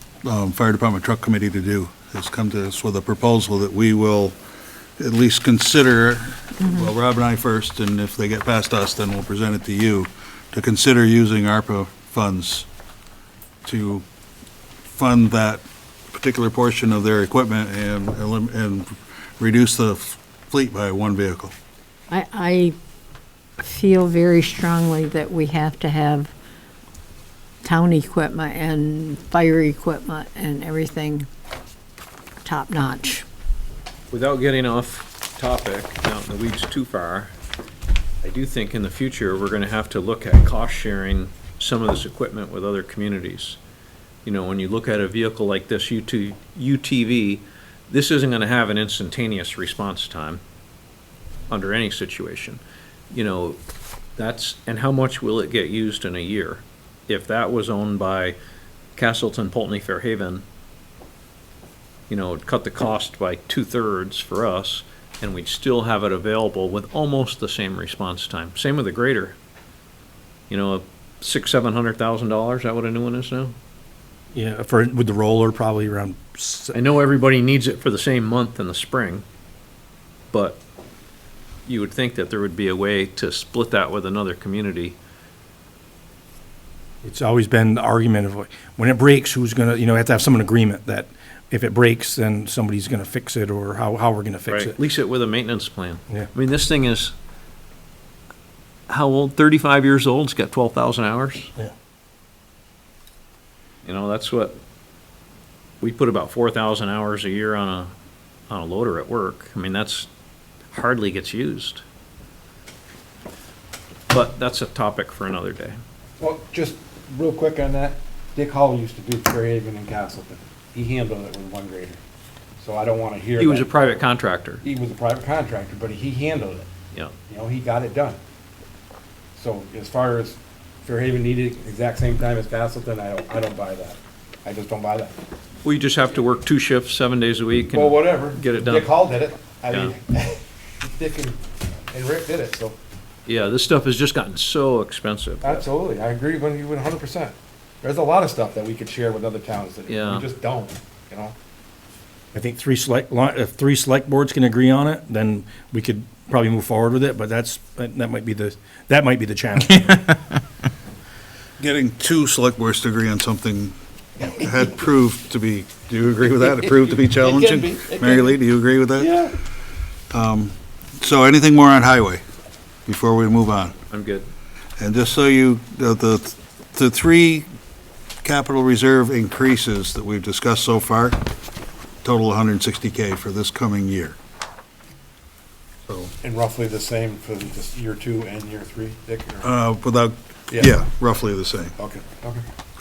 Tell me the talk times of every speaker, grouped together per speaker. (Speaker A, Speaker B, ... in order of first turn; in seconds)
Speaker A: 0.2-4.4, 5.0-12.7, 13.7-14.1, 14.9-21.5, 161.6-169.2, 170.1-172.2, 172.9-173.8, 174.8-177.5, 178.2-181.2, 182.0-184.2, 185.9-186.1, 189.4-191.8
Speaker B: 22.1-22.8, 23.6-26.3, 27.6-31.3, 32.4-33.3
Speaker C: 34.1-37.3, 38.2-43.6, 44.2-50.4, 51.5-53.6, 54.2-58.4, 59.0-60.5, 62.1-69.4, 70.5-73.5, 76.7-79.2, 80.3-80.6, 81.7-85.0, 94.5-97.1, 98.9-101.5, 103.8-104.6, 105.8-107.9, 108.5-110.1, 110.7-111.8, 114.1-115.8, 123.4-124.6, 135.6-139.0, 143.3-145.7, 149.9-150.3, 173.9-174.3
Speaker D: 74.3-76.8, 87.0-94.8, 152.3-160.4
Speaker E: 116.2-122.0, 122.6-123.9, 124.6-126.7, 127.3-128.2, 129.4-135.2, 137.7-141.4, 141.9-142.8, 145.4-151.3, 166.5-168.4, 169.0-169.3, 186.2-189.5, 191.8-192.4